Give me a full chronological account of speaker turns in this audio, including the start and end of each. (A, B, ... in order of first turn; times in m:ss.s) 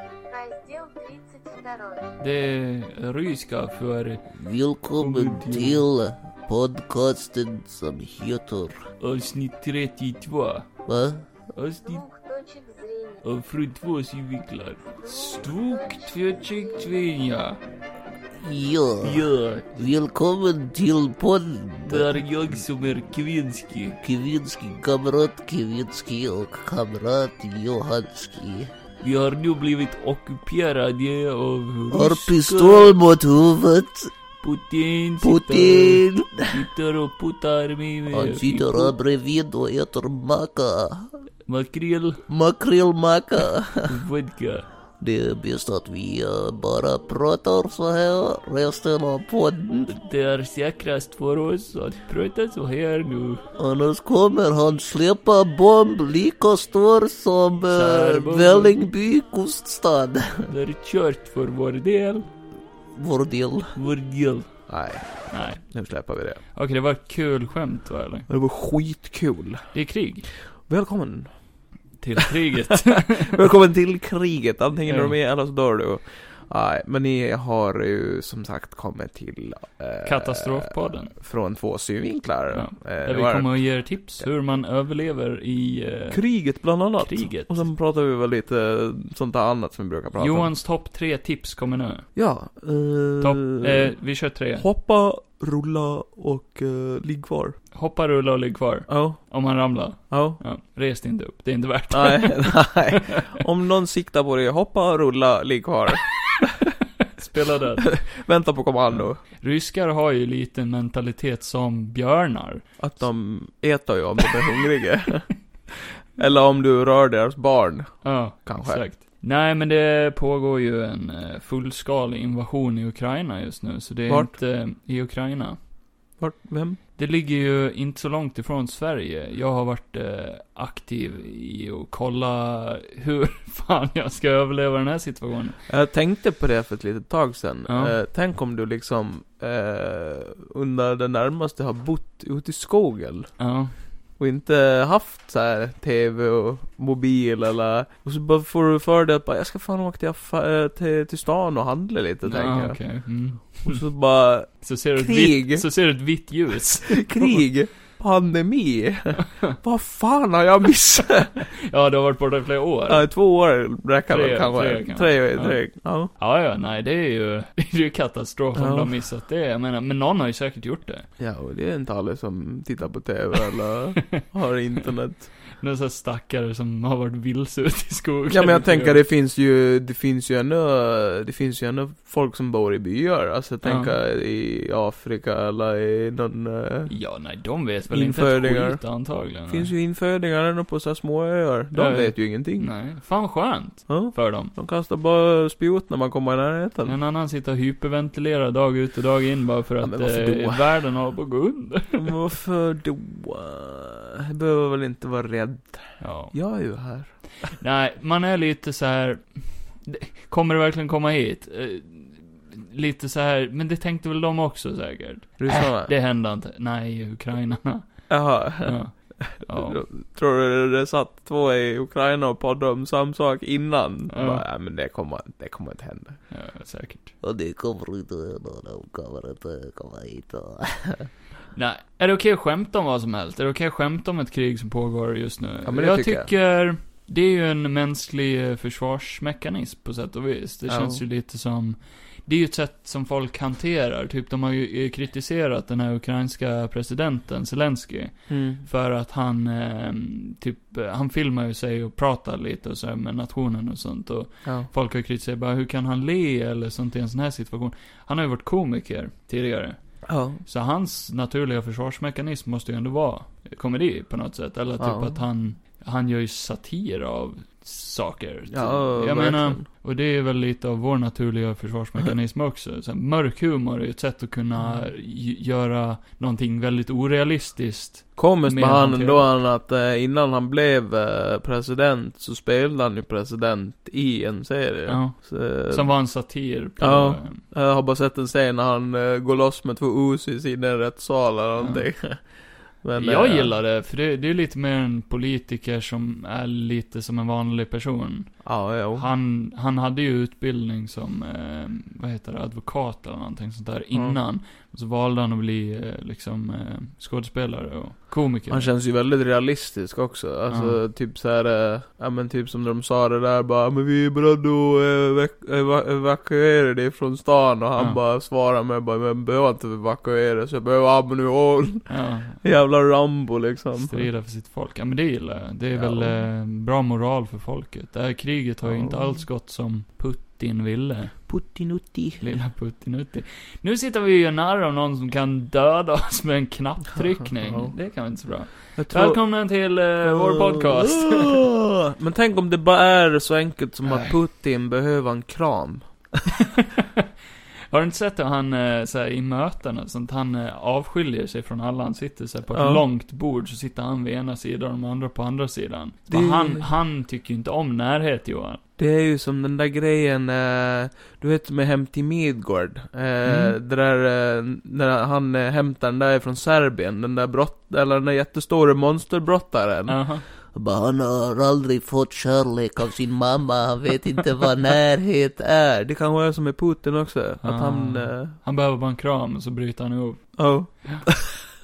0:00.3-0:02.1 A
0:02.2-0:04.2 B
0:04.3-0:08.8 C
0:05.0-0:05.8 B
0:09.0-0:10.7 B
0:10.9-0:11.3 C
0:11.6-0:12.0 B
0:11.8-0:13.2 A
0:13.2-0:17.6 B
0:15.0-0:17.2 A
0:18.3-0:22.6 C
0:19.0-0:19.8 B
0:21.8-0:24.0 B
0:24.0-0:28.7 C
0:29.0-0:33.0 B
0:31.9-0:34.1 C
0:34.4-0:38.9 B
0:35.2-0:36.6 C
0:38.1-0:41.2 C
0:41.5-0:42.2 B
0:42.3-0:44.0 C
0:43.9-0:44.7 B
0:45.0-0:50.0 C
0:49.9-0:53.4 B
0:53.6-1:00.5 C
0:57.7-0:58.8 B
1:00.5-1:02.3 B
1:03.0-1:03.7 C
1:03.8-1:04.5 B
1:04.7-1:06.4 D
1:05.3-1:05.6 B
1:06.6-1:08.3 B
1:08.3-1:09.7 D
1:09.7-1:10.3 B
1:10.6-1:11.3 D
1:12.0-1:13.4 B
1:12.2-1:23.6 D
1:14.9-1:15.2 B
1:20.0-1:21.2 B
1:22.5-1:27.6 B
1:26.1-1:30.5 D
1:30.2-1:32.0 B
1:32.2-1:33.9 D
1:33.2-1:34.7 B
1:34.6-1:37.6 D
1:37.7-1:43.2 B
1:38.9-1:39.2 D
1:40.1-1:40.4 D
1:41.9-1:46.7 D
1:47.2-1:48.0 B
1:47.9-1:49.2 D
1:49.0-1:52.7 B
1:52.8-1:58.8 D
1:58.0-2:05.6 B
2:04.1-2:04.3 D
2:06.2-2:06.8 D
2:07.0-2:15.6 B
2:15.7-2:23.4 D
2:17.7-2:17.9 B
2:23.4-2:23.8 B
2:24.2-2:32.9 D
2:32.3-2:33.8 B
2:33.6-2:35.7 D
2:34.6-2:37.4 B
2:36.9-2:41.5 D
2:41.5-2:43.1 B
2:42.9-2:46.1 D
2:44.1-2:51.1 B
2:48.6-2:49.0 D
2:51.2-2:55.4 D
2:55.5-2:59.0 B
2:58.3-3:06.9 D
3:03.6-3:03.9 B
3:06.9-3:09.7 B
3:07.9-3:08.8 D
3:09.5-3:12.7 D
3:11.7-3:14.5 B
3:13.9-3:17.0 D
3:16.9-3:22.1 B
3:19.8-3:20.7 D
3:22.0-3:27.5 D
3:26.0-3:26.4 B
3:27.5-3:39.8 B
3:35.4-3:35.9 D
3:38.1-3:46.2 D
3:44.1-3:44.4 B
3:46.3-3:47.1 B
3:47.2-3:51.0 C
3:51.5-4:19.8 B
3:55.6-3:56.3 D
4:00.7-4:01.0 D
4:08.3-4:08.6 D
4:20.1-4:20.4 D
4:20.5-4:39.2 B
4:24.8-4:25.2 D
4:28.5-4:29.6 D
4:34.6-4:34.9 D
4:38.2-4:45.9 D
4:44.9-4:47.4 B
4:46.8-4:53.5 D
4:51.6-4:51.8 B
4:53.0-5:08.7 B
4:58.4-4:59.1 D
5:03.9-5:04.2 D
5:08.5-5:24.1 D
5:10.5-5:10.8 B
5:21.9-5:22.4 B
5:23.8-5:31.3 B
5:25.7-5:26.2 D
5:28.6-5:29.2 D
5:31.3-5:32.4 D
5:32.2-5:41.5 B
5:37.2-5:37.8 D
5:38.8-5:39.2 D
5:40.0-5:46.3 D
5:43.9-5:44.1 B
5:46.4-5:47.0 B
5:47.7-5:58.6 B
5:52.5-5:52.8 D
5:56.1-5:56.7 D
5:58.8-6:10.0 D
6:03.2-6:03.6 B
6:09.9-6:10.2 B
6:10.5-6:15.8 C
6:15.8-6:18.4 D
6:17.4-6:21.2 B
6:20.4-6:21.4 D